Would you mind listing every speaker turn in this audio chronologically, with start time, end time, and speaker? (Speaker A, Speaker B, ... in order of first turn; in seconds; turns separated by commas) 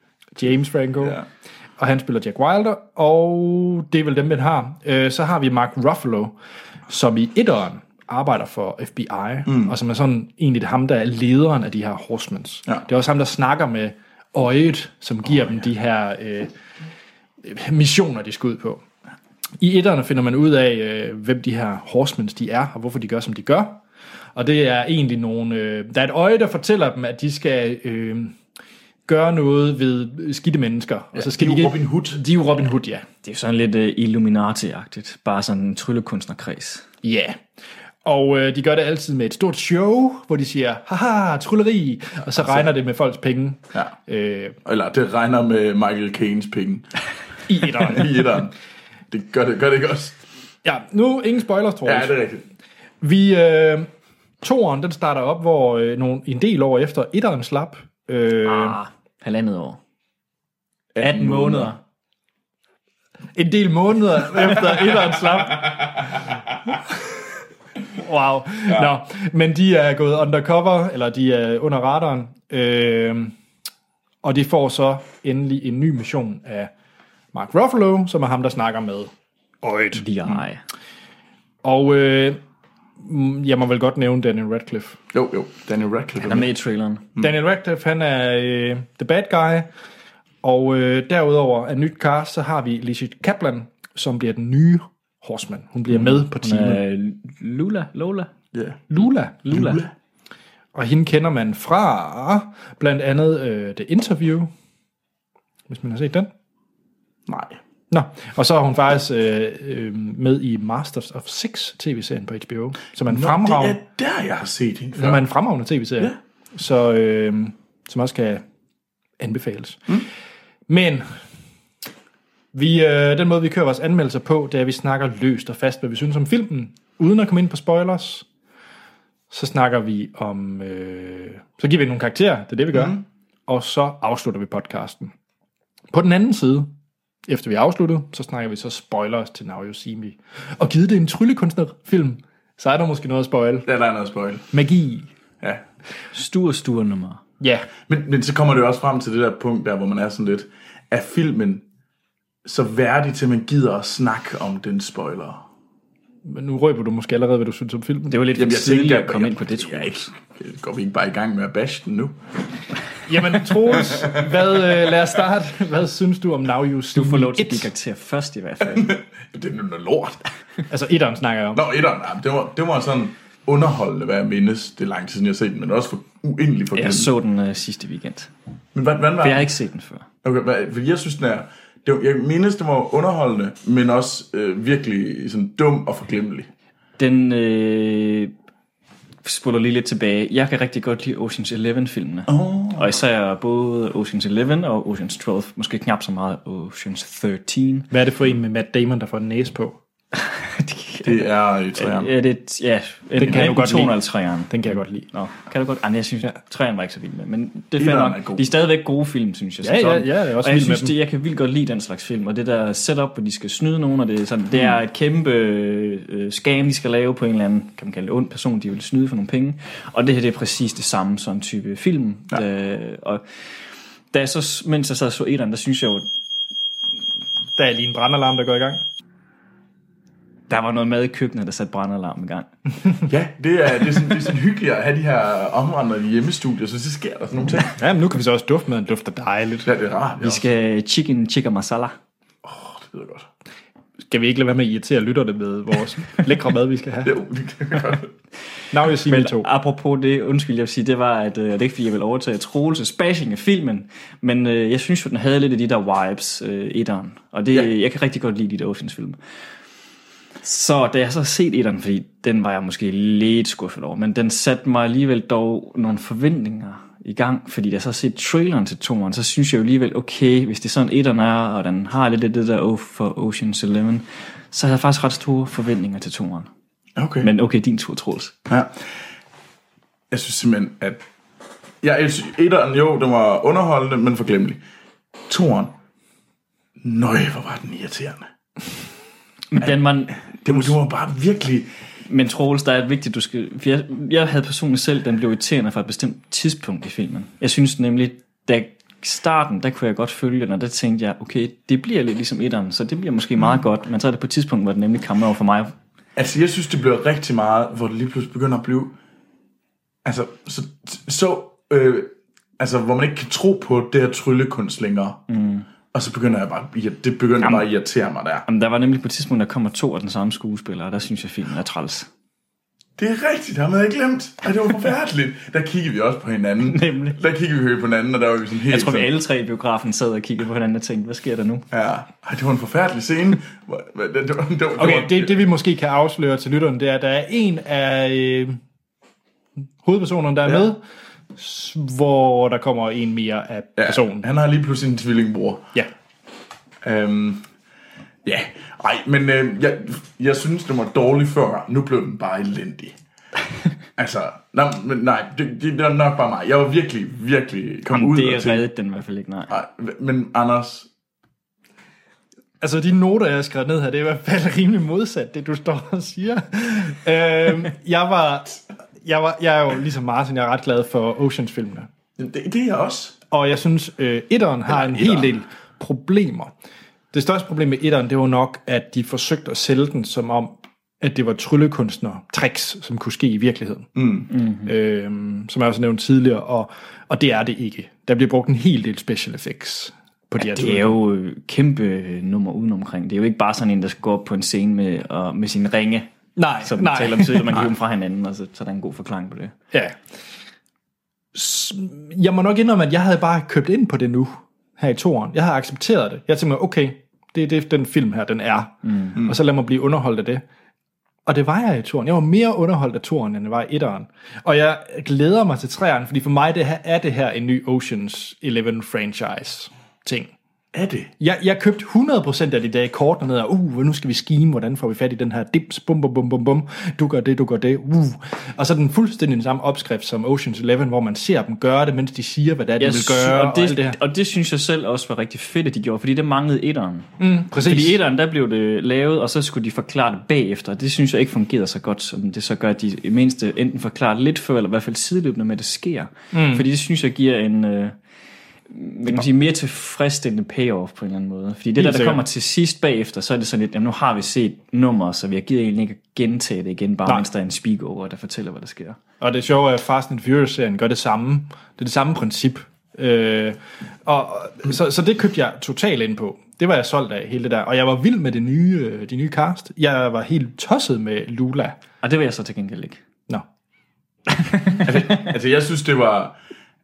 Speaker A: 0.4-1.2, Speaker B: 1.0-1.2, Speaker A: 1.8-6.3, Speaker A: 6.9-16.5, Speaker B: 9.5-9.7, Speaker A: 17.4-18.8, Speaker A: 19.6-23.8, Speaker A: 24.4-28.4, Speaker A: 29.1-33.0, Speaker B: 31.1-32.2, Speaker C: 33.2-36.9, Speaker A: 37.0-37.4, Speaker A: 38.0-44.6, Speaker B: 44.6-46.9, Speaker A: 47.5-48.3, Speaker B: 47.7-48.5, Speaker B: 49.1-50.2, Speaker A: 50.6-52.1, Speaker B: 51.8-52.4, Speaker A: 53.0-53.9, Speaker A: 54.4-58.8, Speaker C: 58.4-59.8, Speaker B: 60.9-61.7, Speaker C: 61.0-61.8, Speaker A: 63.3-65.9, Speaker A: 67.9-73.3, Speaker A: 74.2-76.7, Speaker A: 77.3-79.1, Speaker A: 79.6-80.0, Speaker C: 80.0-80.6, Speaker A: 81.6-82.4, Speaker A: 83.0-85.0, Speaker B: 85.1-86.5, Speaker C: 86.2-87.1, Speaker A: 87.2-89.7, Speaker A: 90.4-96.8, Speaker C: 96.0-98.3, Speaker B: 98.5-98.8, Speaker A: 98.9-99.8, Speaker B: 99.5-99.9, Speaker A: 100.7-104.5, Speaker A: 105.7-106.3, Speaker B: 107.3-107.6, Speaker A: 107.9-113.8, Speaker B: 113.0-115.2, Speaker A: 114.9-118.4, Speaker A: 119.2-120.0, Speaker A: 120.7-121.2, Speaker A: 122.5-128.2, Speaker A: 129.3-135.1, Speaker B: 132.7-133.0, Speaker A: 135.9-136.7, Speaker A: 137.3-143.7, Speaker B: 143.6-144.5, Speaker A: 144.5-145.1, Speaker C: 146.1-147.2, Speaker A: 147.4-147.7, Speaker B: 147.9-151.6, Speaker B: 152.4-155.4, Speaker A: 156.2-158.2, Speaker C: 158.1-160.1, Speaker B: 158.3-162.2, Speaker A: 163.1-167.7, Speaker B: 163.9-164.5, Speaker C: 166.9-168.9, Speaker B: 168.6-170.2, Speaker A: 170.7-171.6, Speaker B: 171.5-177.1, Speaker C: 176.7-178.3, Speaker B: 178.7-179.5, Speaker C: 179.2-180.1, Speaker B: 180.2-186.5, Speaker C: 187.0-188.3, Speaker C: 189.2-197.9, Speaker B: 192.3-192.9, Speaker A: 197.9-199.8, Speaker C: 200.2-223.2, Speaker B: 201.0-202.1, Speaker A: 203.1-205.1, Speaker B: 207.8-208.5, Speaker A: 209.6-210.9, Speaker C: 224.1-226.1, Speaker A: 227.6-228.8, Speaker C: 230.5-232.5, Speaker B: 233.1-237.8, Speaker A: 237.8-239.7, Speaker B: 239.6-240.4, Speaker C: 240.2-241.9, Speaker B: 242.4-243.3, Speaker A: 244.1-247.1, Speaker B: 247.0-248.1, Speaker A: 248.7-249.5, Speaker C: 249.1-259.2, Speaker C: 260.4-276.5, Speaker B: 276.9-277.3, Speaker C: 277.2-278.3, Speaker B: 278.5-278.9, Speaker B: 280.1-281.0, Speaker B: 281.8-284.6, Speaker B: 285.3-285.8, Speaker B: 286.8-288.3, Speaker C: 289.5-290.8, Speaker B: 290.3-291.7, Speaker C: 292.1-305.7, Speaker B: 306.1-308.9, Speaker B: 310.0-315.2, Speaker C: 315.3-315.7, Speaker B: 315.9-318.4, Speaker C: 318.5-322.1, Speaker B: 323.0-329.1, Speaker C: 326.6-327.2, Speaker C: 328.7-331.6, Speaker B: 331.7-335.4, Speaker A: 334.8-338.6, Speaker A: 339.8-340.8, Speaker A: 341.4-344.3, Speaker B: 343.8-345.7, Speaker B: 346.8-347.5, Speaker B: 348.2-352.9, Speaker B: 353.9-358.6, Speaker C: 357.9-359.5, Speaker B: 359.5-360.9, Speaker A: 362.6-371.9, Speaker B: 372.2-373.2, Speaker A: 373.3-376.5, Speaker B: 374.7-375.3, Speaker A: 377.1-383.9, Speaker B: 383.9-384.3, Speaker C: 384.3-384.7, Speaker A: 384.6-391.0, Speaker C: 390.4-396.1, Speaker A: 396.4-397.6, Speaker C: 396.6-399.5, Speaker A: 401.3-410.4, Speaker C: 408.8-409.1, Speaker A: 411.2-420.3, Speaker B: 420.7-421.1, Speaker A: 421.2-434.0, Speaker C: 432.8-447.9, Speaker A: 437.2-438.0, Speaker A: 446.3-446.6, Speaker C: 448.7-459.0, Speaker A: 451.8-452.2, Speaker A: 459.2-471.8, Speaker C: 472.0-473.0, Speaker C: 474.5-474.9, Speaker B: 474.8-476.4